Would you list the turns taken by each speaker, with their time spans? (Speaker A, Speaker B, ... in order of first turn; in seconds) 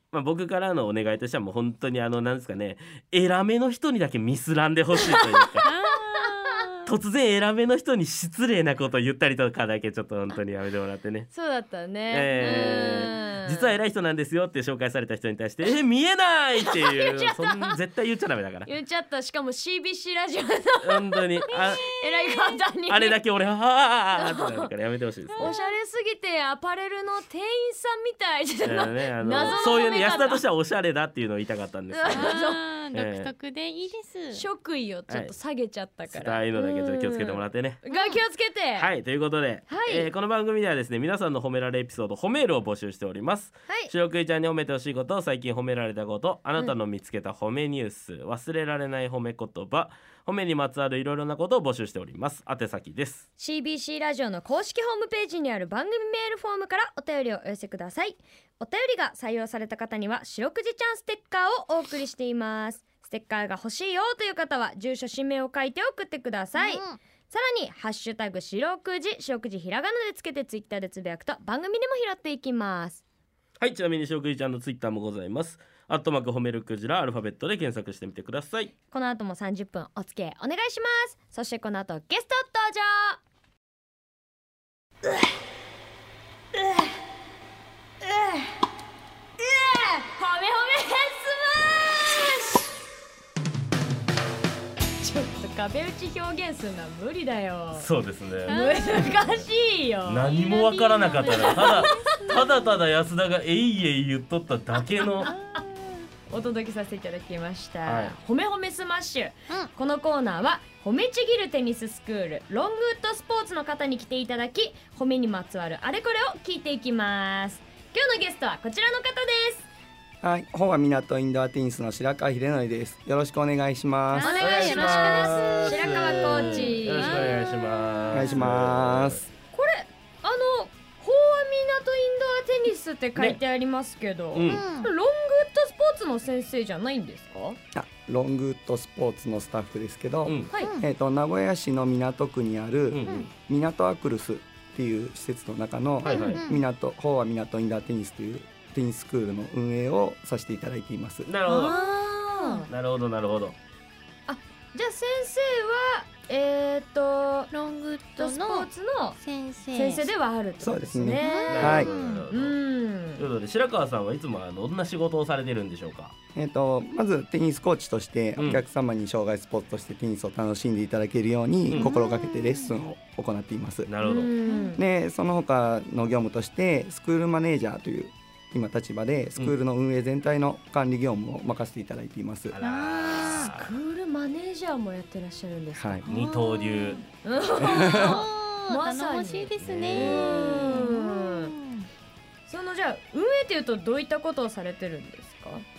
Speaker A: 0.1-5.7, 6.9-11.3, 12.1-18.7, 20.8-21.9, 22.9-25.5, 28.6-32.4, 32.9-33.3, 36.1-37.8, 38.8-53.3, 73.6-78.7, 97.7-99.5, 100.1-105.3, 107.9-108.2, 124.4-129.2, 134.3-134.6, 140.2-140.5, 142.9-143.3, 146.0-146.4, 151.3-151.8, 152.7-153.6, 161.5-162.6, 163.2-166.1, 168.4-168.6, 173.9-174.3, 182.5-183.8, 186.1-187.1, 189.6-190.8
Speaker B: 5.7-6.9, 25.4-25.8, 29.4-29.6, 32.1-34.5, 37.9-38.2, 66.5-67.0, 98.5-99.2, 100.2-102.8, 105.2-106.1, 124.1-127.8, 134.5-134.9, 140.6-140.9, 146.1-146.6, 151.5-152.7, 157.5-160.1, 161.1-162.2, 171.7-172.8, 174.5-174.8, 182.6-183.5, 186.1-187.1, 187.6-191.9
Speaker C: 11.3-13.8, 16.6-17.8, 18.7-23.2, 24.2-24.7, 25.4-30.4, 31.9-32.6, 34.3-38.9, 39.7-40.1, 53.4-73.0, 78.9-83.2, 86.6-86.9, 88.0-88.6, 89.4-92.7, 95.0-97.9, 98.5-100.3, 101.3-102.4, 105.2-105.6, 106.3-119.7, 124.2-127.4, 129.5-137.6, 151.5-152.7, 154.3-157.5, 158.2-159.2, 159.7-163.2, 174.0-174.8, 183.3-186.1, 187.2-191.5, 192.5-195.7
Speaker D: 120.2-124.4, 128.1-129.3, 137.7-151.3, 160.6-161.9, 166.3-173.9, 174.8-182.6, 185.7-186.1, 187.6-188.2